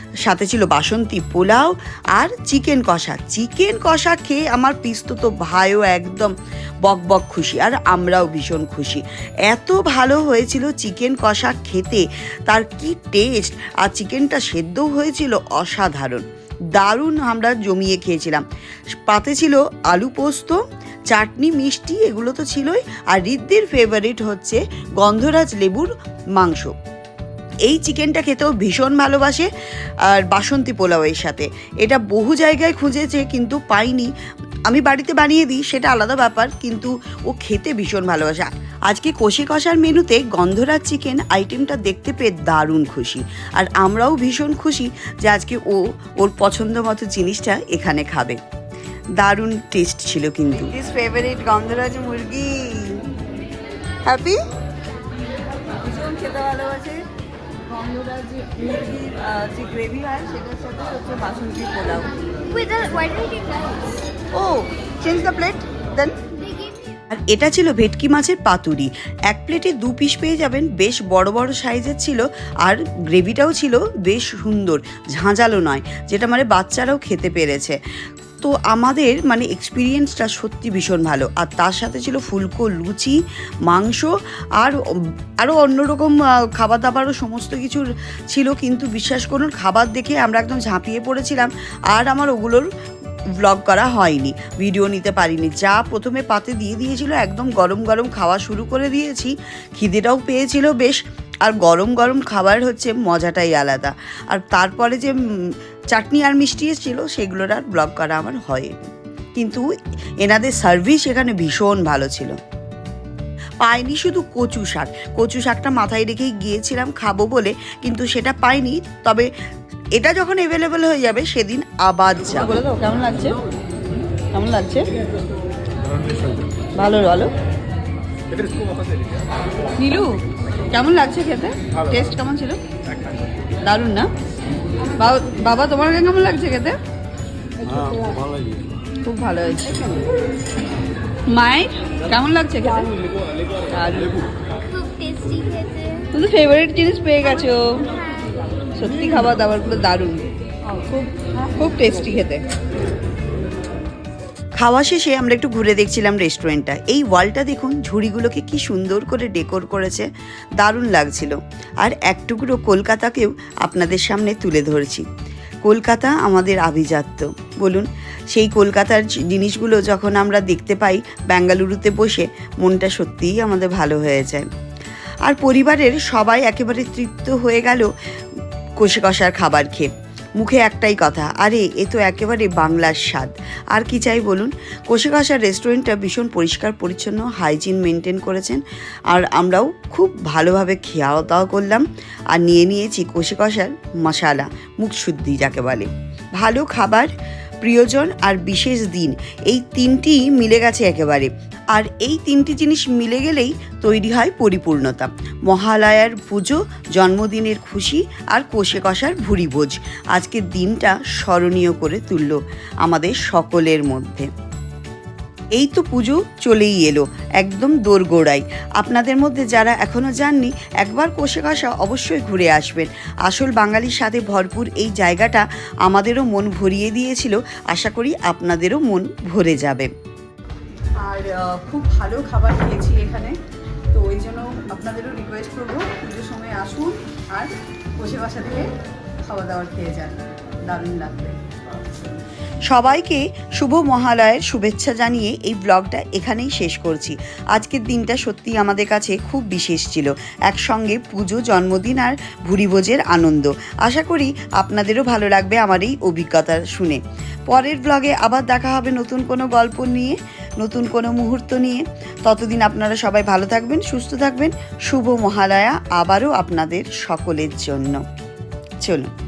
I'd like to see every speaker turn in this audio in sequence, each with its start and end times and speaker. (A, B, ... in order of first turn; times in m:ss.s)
0:00.2-0:06.3 A
0:06.8-0:16.2 A
0:16.8-0:18.4 A
0:19.1-0:26.7 A
0:27.7-0:29.5 A
0:30.1-0:34.1 A
0:34.7-0:48.4 A
0:49.2-0:52.9 A
0:54.1-0:54.4 A
0:55.8-0:56.9 B
0:57.8-1:02.1 B
0:58.7-1:00.8 A
1:02.6-1:03.8 C
1:04.4-1:06.1 A
1:05.2-1:05.6 B
1:07.1-1:17.8 A
1:18.4-1:24.8 A
1:25.4-1:32.7 A
1:33.4-1:45.2 A
1:45.9-1:48.7 A
1:49.4-1:49.6 A
1:50.2-1:52.4 A
1:53.6-1:59.3 A
2:00.0-2:03.1 A
2:02.7-2:03.4 B
2:04.4-2:04.8 B
2:06.8-2:07.3 B
2:09.8-2:10.1 B
2:10.7-2:12.6 B
2:13.7-2:14.0 B
2:15.0-2:16.8 B
2:17.9-2:18.1 B
2:19.1-2:20.0 B
2:21.4-2:22.9 B
2:23.8-2:24.2 B
2:24.8-2:26.1 C
2:26.1-2:27.9 B
2:28.8-2:30.2 B
2:30.9-2:32.4 B
2:34.6-2:45.1 A
2:45.6-2:54.5 A
2:55.3-2:57.9 A
2:58.8-3:34.3 A
3:35.6-3:49.9 A
3:51.0-3:53.3 B
3:53.9-3:58.7 B
3:59.3-4:01.4 B
4:02.7-4:28.0 A
4:28.8-4:29.1 A